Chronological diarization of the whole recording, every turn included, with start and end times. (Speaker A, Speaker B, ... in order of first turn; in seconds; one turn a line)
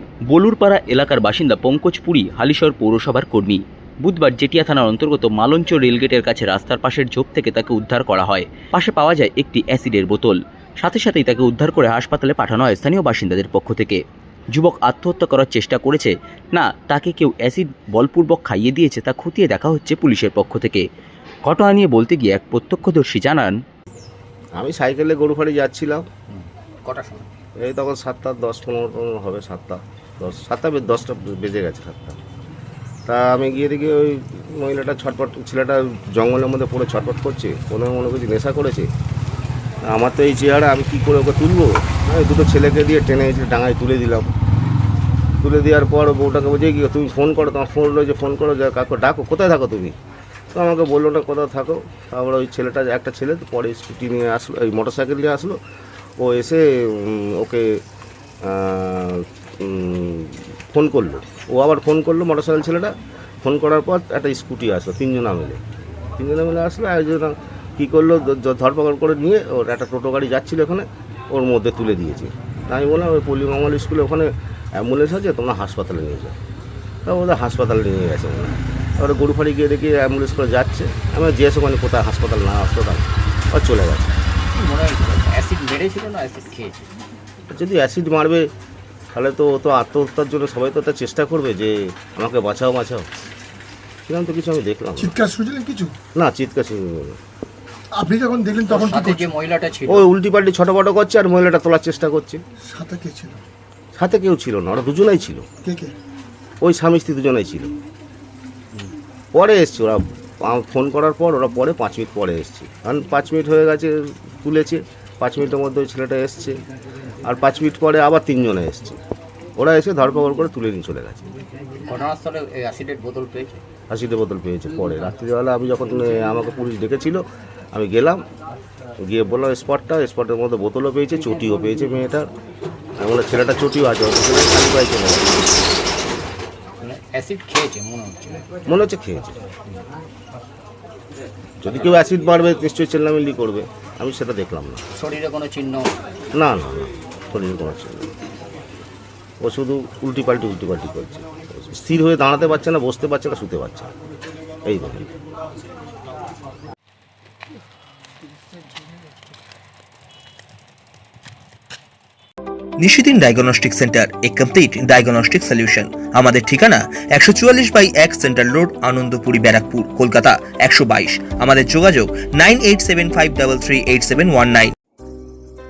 Speaker A: 0.3-14.0
Speaker A: 14.5-20.8
Speaker A: 21.4-23.6
Speaker B: 24.5-26.1
Speaker C: 26.3-27.3
Speaker B: 27.6-32.2
Speaker B: 33.0-38.9
Speaker B: 39.8-44.3
Speaker B: 45.4-50.0
Speaker B: 50.5-55.6
Speaker B: 56.2-57.8
Speaker B: 58.4-65.6
Speaker B: 66.2-76.4
Speaker B: 77.0-84.1
Speaker C: 84.5-86.9
Speaker B: 87.5-88.5
Speaker B: 89.1-93.1
Speaker B: 94.1-95.2
Speaker D: 95.0-96.0
Speaker B: 96.1-97.2
Speaker D: 97.9-99.2
Speaker C: 98.7-100.1
Speaker B: 99.9-102.4
Speaker D: 102.7-103.4
Speaker B: 103.9-105.5
Speaker D: 105.6-106.0
Speaker B: 106.6-107.7
Speaker B: 109.3-116.6
Speaker B: 117.2-119.0
Speaker B: 119.5-121.3
Speaker C: 121.8-123.6
Speaker B: 123.9-127.2
Speaker B: 127.7-128.2
Speaker B: 129.0-132.3
Speaker B: 133.0-135.4
Speaker C: 136.8-138.6
Speaker B: 138.7-139.4
Speaker B: 141.6-144.8
Speaker C: 144.9-145.9
Speaker B: 146.3-148.1
Speaker B: 149.4-153.9
Speaker B: 154.7-155.1
Speaker D: 158.6-159.0
Speaker E: 162.8-174.7